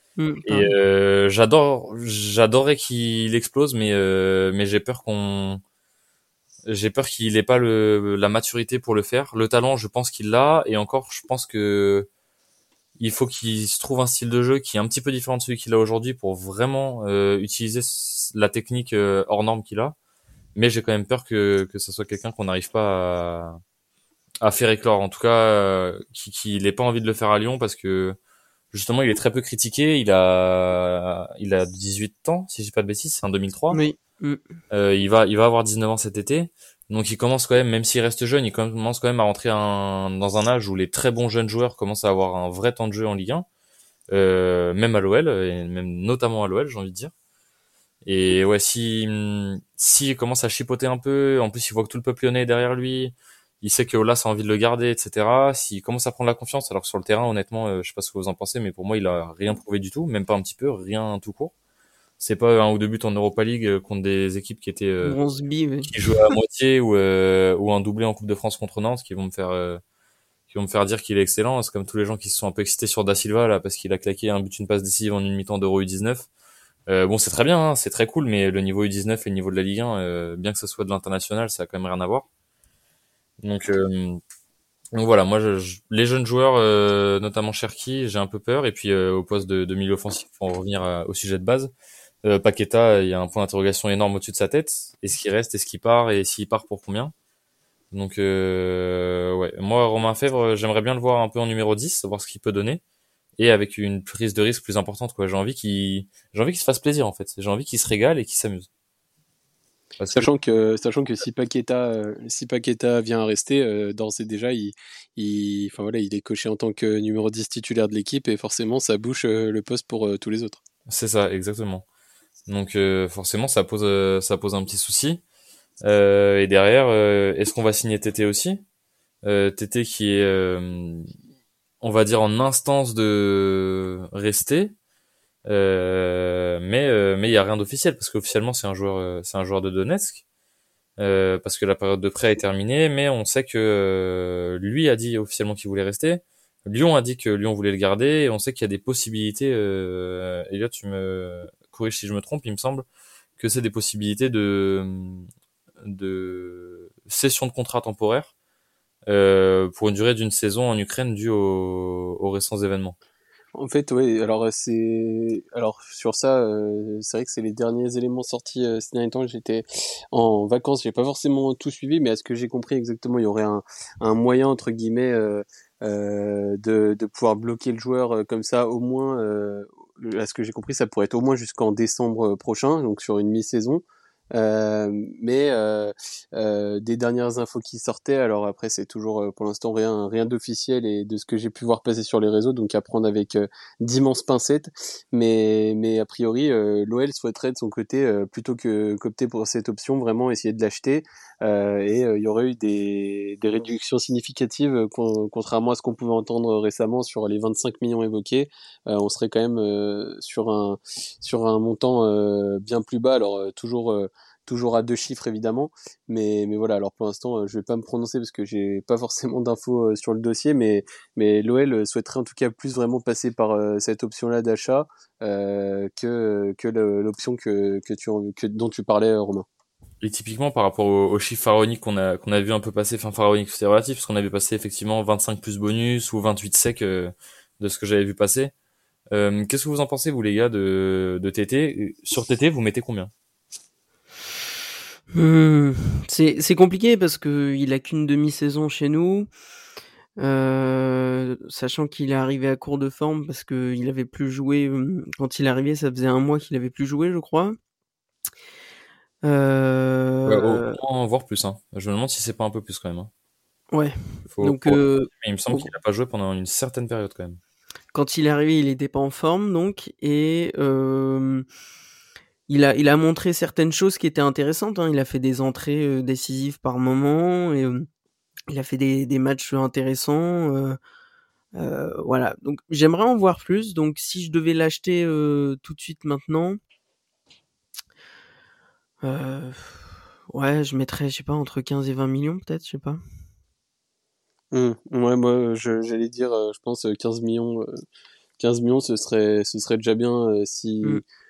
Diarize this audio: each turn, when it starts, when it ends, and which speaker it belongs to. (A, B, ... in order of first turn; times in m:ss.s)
0:00.2-0:00.7 A
0:00.5-0:05.6 B
0:06.7-0:12.1 B
0:13.0-0:20.0 B
0:20.6-0:23.6 B
0:24.4-0:28.2 B
0:28.7-0:33.8 B
0:33.7-0:34.4 A
0:34.7-0:43.5 B
0:44.1-0:47.1 B
0:48.0-1:01.5 B
1:02.2-1:05.2 B
1:05.0-1:05.9 A
1:05.8-1:09.8 B
1:10.5-1:16.3 B
1:16.9-1:22.3 B
1:23.4-1:24.2 B
1:24.9-1:31.7 B
1:32.2-1:37.1 B
1:37.9-1:42.8 B
1:43.4-1:48.7 B
1:50.0-1:50.3 B
1:50.1-2:00.6 C
2:00.9-2:01.8 B
2:02.5-2:05.2 B
2:05.8-2:08.6 B
2:09.2-2:11.1 B
2:11.8-2:14.7 B
2:15.5-2:20.2 B
2:21.0-2:32.9 B
2:33.4-2:35.3 B
2:35.8-2:38.3 B
2:39.1-2:43.0 B
2:43.6-3:03.8 C
3:04.3-3:49.5 C
3:50.0-3:58.5 B
3:59.1-4:03.1 B
4:05.1-4:09.3 A
4:10.2-4:17.6 A
4:19.2-4:20.8 A
4:20.3-4:23.1 B
4:23.7-4:25.7 A
4:24.4-4:27.4 B
4:27.9-4:31.5 A
4:32.5-4:37.9 A
4:38.5-4:40.8 A
4:41.6-4:46.6 A
4:49.0-4:53.0 A
4:54.5-4:57.7 C
4:58.4-5:01.0 C